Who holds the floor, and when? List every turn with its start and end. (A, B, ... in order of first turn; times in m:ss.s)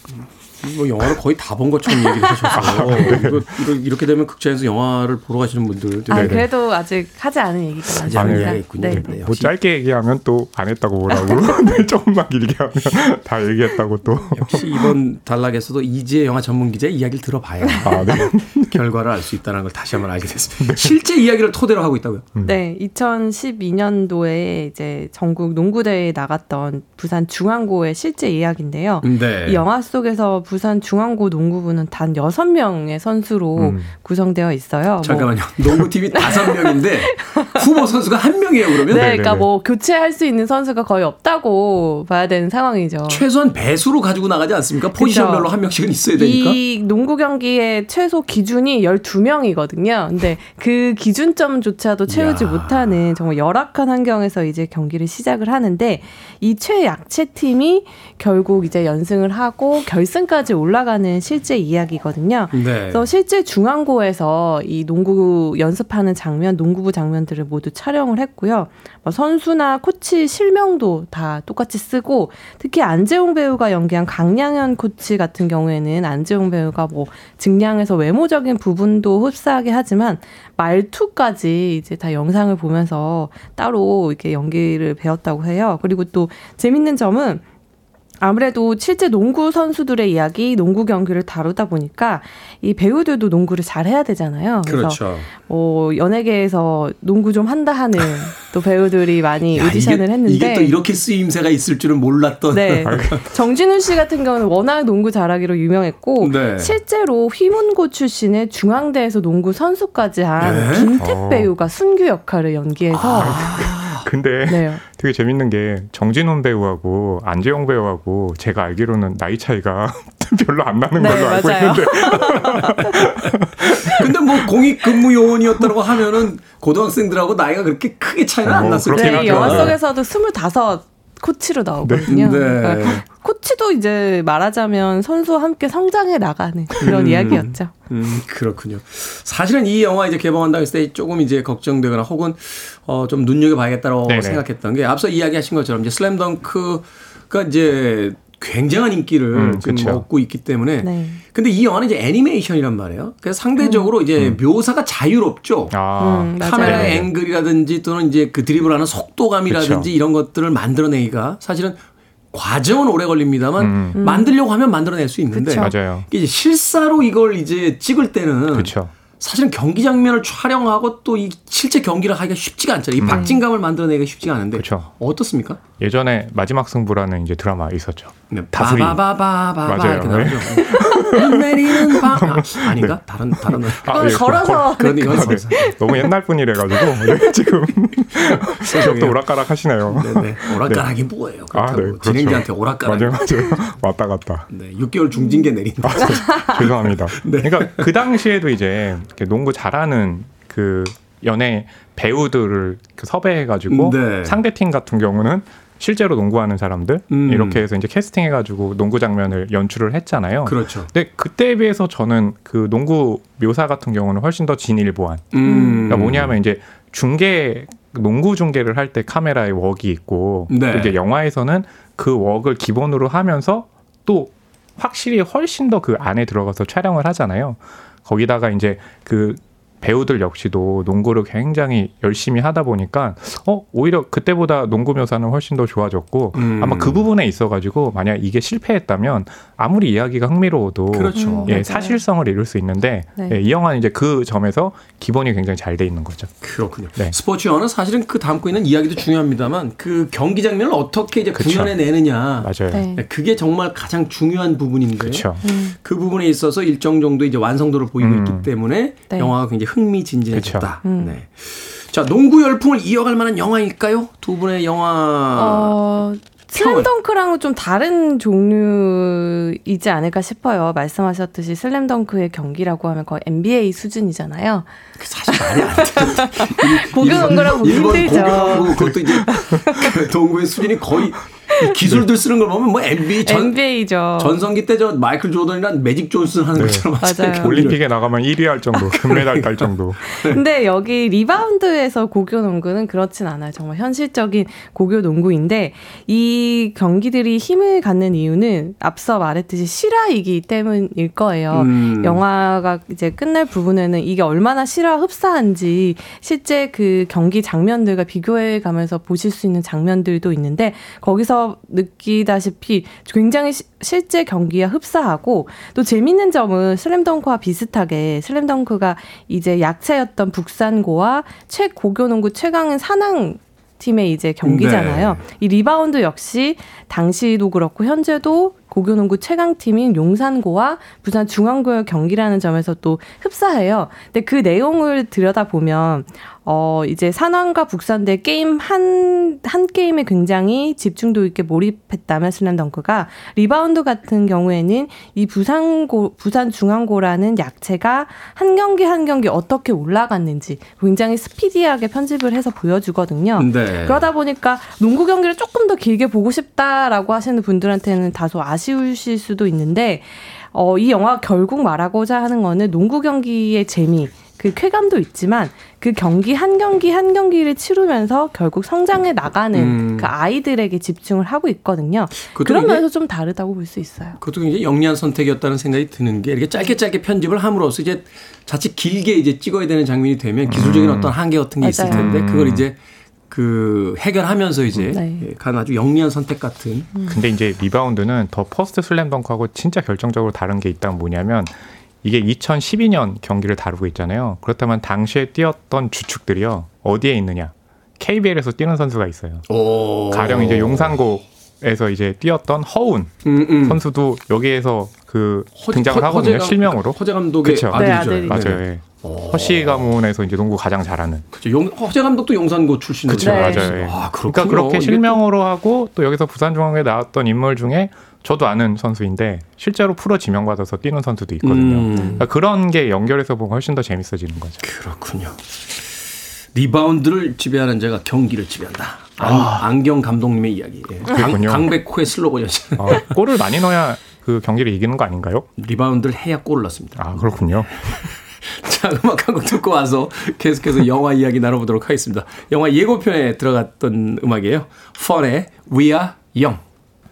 0:00.1-0:06.5 A
0:02.5-0:03.5 B
0:06.1-0:09.2 C
0:06.1-0:06.5 B
0:08.0-0:09.5 A
0:08.1-0:14.9 B
0:11.1-0:11.8 C
0:14.3-0:22.3 A
0:17.7-0:18.2 C
0:17.8-0:18.8 B
0:20.6-0:21.0 B
0:22.4-0:35.6 C
0:29.0-0:29.6 A
0:33.6-0:34.0 B
0:35.0-0:39.2 A
0:36.2-0:37.6 C
0:38.9-0:43.2 C
0:38.9-0:39.5 B
0:43.1-0:46.6 A
0:45.0-0:45.5 C
0:46.1-1:27.4 C
0:52.1-0:53.0 A
1:02.5-1:03.1 A
1:28.2-1:40.8 C
1:34.6-1:35.3 A
1:39.5-1:43.2 A
1:42.5-1:53.7 C
1:42.9-1:43.3 B
1:46.2-1:46.8 A
1:50.4-1:50.9 A
1:51.0-1:51.5 B
1:52.9-1:54.1 A
1:53.2-2:04.2 B
1:54.5-1:54.8 C
2:01.0-2:02.7 C
2:02.6-2:03.0 A
2:03.8-2:09.8 A
2:08.4-2:09.8 B
2:08.9-2:17.7 C
2:11.8-2:12.3 B
2:12.1-2:13.0 A
2:16.8-2:41.8 A
2:24.0-2:24.4 B
2:29.3-2:30.0 B
2:30.8-2:31.2 C
2:33.6-2:33.9 C
2:35.7-2:37.1 B
2:36.0-2:37.1 C
2:39.5-2:39.9 B
2:42.3-2:55.6 A
2:43.6-2:44.0 B
2:44.0-2:44.3 C
2:45.3-2:45.8 C
2:45.6-2:46.1 B
2:48.5-2:48.9 B
2:53.0-2:53.3 B
2:53.1-2:53.4 C
2:54.6-2:54.9 B
2:55.8-2:59.0 B
2:58.3-3:06.0 A
2:59.6-3:10.9 B
3:03.8-3:06.1 C
3:06.7-3:07.4 C
3:08.2-3:09.2 A
3:09.9-3:13.3 A
3:11.5-3:14.5 B
3:14.5-3:17.9 A
3:15.8-4:06.3 B
3:16.1-3:16.6 C
3:23.7-3:24.4 A
3:27.1-3:27.6 A
3:30.4-3:30.9 A
3:35.3-3:36.4 A
3:35.4-3:36.0 C
3:40.5-3:41.0 A
3:56.3-3:57.1 A
4:00.9-4:01.6 A
4:01.2-4:02.0 C
4:03.2-4:03.4 C
4:06.4-4:25.8 A
4:11.4-4:12.9 B
4:12.7-4:13.0 C
4:15.0-4:15.4 B
4:15.4-4:15.8 C
4:18.0-4:18.5 B
4:20.3-4:20.8 B
4:20.8-4:21.2 C
4:25.4-4:34.7 C
4:26.5-4:26.9 A
4:35.0-4:47.8 A
4:35.3-4:39.9 C
4:37.1-4:37.6 B
4:38.8-4:39.6 B
4:43.2-4:44.4 C
4:46.6-4:50.0 B
4:47.0-4:47.7 C
4:48.9-4:50.4 A
4:50.3-6:14.2 C
5:01.5-5:02.2 A
5:24.4-5:25.2 A
5:53.4-5:54.1 A
6:09.5-6:10.1 A
6:12.3-6:12.8 A
6:14.2-6:22.8 A
6:20.5-6:22.7 B
6:21.6-6:22.1 C
6:23.3-6:26.9 A
6:24.9-6:25.2 C
6:27.0-6:27.3 C
6:27.1-6:39.5 B
6:39.5-6:41.0 A
6:40.1-6:51.3 B
6:43.2-6:43.8 A
6:45.6-6:50.0 A
6:47.7-6:48.5 C
6:51.3-6:55.2 A
6:53.1-7:04.6 B
6:53.2-6:53.8 C
7:01.4-7:02.2 A
7:01.9-7:02.3 C
7:04.6-7:05.4 A
7:06.5-7:13.1 A
7:09.2-7:09.6 B
7:11.1-7:11.8 B
7:12.8-7:15.5 B
7:15.6-7:26.6 A
7:17.0-7:17.8 B